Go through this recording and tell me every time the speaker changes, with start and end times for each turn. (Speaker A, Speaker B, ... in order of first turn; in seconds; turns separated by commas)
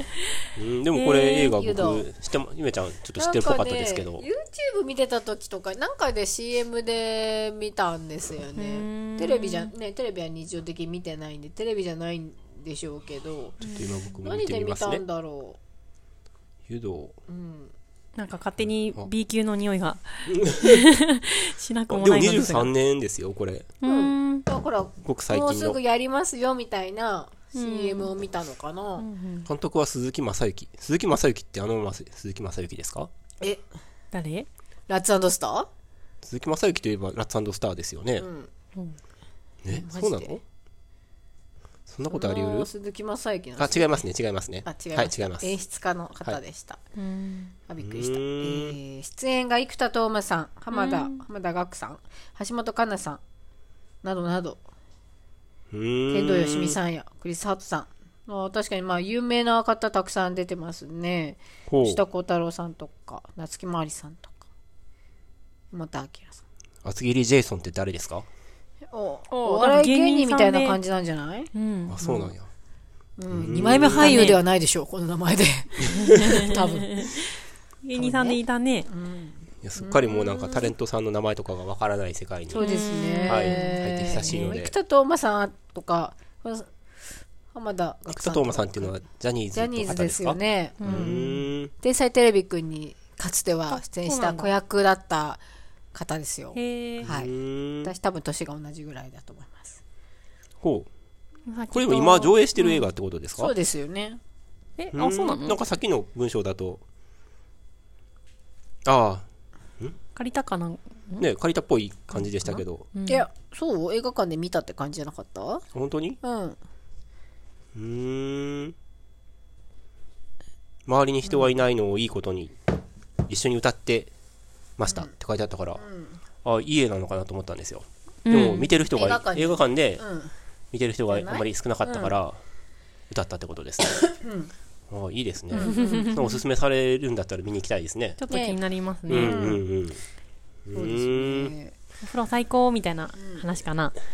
Speaker A: 0.6-4.2, Speaker B: 0.9-1.6, Speaker C: 1.5-2.1, Speaker C: 3.2-15.6, Speaker B: 8.6-9.7, Speaker A: 13.6-15.0, Speaker B: 13.6-14.1, Speaker A: 16.7-17.1, Speaker C: 17.3-17.7, Speaker B: 18.1-22.7, Speaker A: 20.3-20.8, Speaker A: 21.9-23.7, Speaker B: 23.8-24.4, Speaker C: 23.8-29.1, Speaker A: 25.0-25.8, Speaker B: 27.5-28.1, Speaker B: 29.0-29.5, Speaker A: 29.5-33.1, Speaker B: 34.1-34.5, Speaker C: 34.9-35.7, Speaker A: 36.2-38.3, Speaker C: 38.2-38.5, Speaker A: 39.6-40.4, Speaker C: 39.7-40.4, Speaker A: 41.9-42.7, Speaker C: 42.1-44.0, Speaker A: 43.6-45.5, Speaker C: 44.6-46.8, Speaker B: 47.0-47.5, Speaker C: 47.7-53.2, Speaker A: 47.8-48.8, Speaker B: 50.7-51.2, Speaker C: 54.0-54.6, Speaker A: 55.7-56.8, Speaker C: 56.1-64.3, Speaker A: 61.7-62.0, Speaker C: 65.7-66.4, Speaker A: 66.8-68.2, Speaker C: 68.9-72.3, Speaker B: 69.3-70.8, Speaker B: 71.5-71.9, Speaker A: 71.9-72.5, Speaker C: 73.2-77.2, Speaker A: 73.3-74.2, Speaker B: 73.8-74.4, Speaker B: 75.9-77.2, Speaker B: 77.8-78.9, Speaker C: 77.9-80.7, Speaker A: 79.6-82.7, Speaker C: 82.5-86.7, Speaker B: 82.6-83.8, Speaker A: 83.3-84.7, Speaker C: 87.5-89.0, Speaker A: 88.1-91.7, Speaker C: 89.5-95.4, Speaker B: 90.8-91.4, Speaker B: 93.7-94.5, Speaker C: 95.9-99.8, Speaker B: 96.5-97.1, Speaker A: 97.0-97.9, Speaker A: 100.6-100.9, Speaker B: 101.5-102.8, Speaker A: 101.7-103.5, Speaker C: 103.3-104.2, Speaker B: 104.8-105.6, Speaker A: 104.9-106.8, Speaker A: 108.8-109.2, Speaker B: 110.1-111.3, Speaker A: 111.2-112.9, Speaker B: 112.1-113.2, Speaker C: 113.1-115.6, Speaker A: 115.7-116.2, Speaker C: 116.2-116.6, Speaker A: 117.7-118.7, Speaker A: 120.8-122.5, Speaker C: 121.2-121.5, Speaker A: 123.3-124.1, Speaker A: 124.8-125.8, Speaker C: 125.8-126.2, Speaker A: 126.4-130.0, Speaker B: 128.2-128.7, Speaker C: 128.9-130.3, Speaker A: 130.7-132.4, Speaker C: 131.1-132.2, Speaker A: 133.1-134.0, Speaker C: 134.2-134.5, Speaker A: 134.9-138.2, Speaker B: 135.5-136.4, Speaker C: 135.5-136.1, Speaker B: 138.2-139.4, Speaker C: 138.3-138.6, Speaker A: 139.1-140.0, Speaker C: 139.1-139.6, Speaker A: 140.7-141.5, Speaker C: 140.7-141.7, Speaker B: 142.0-143.9, Speaker C: 143.2-143.5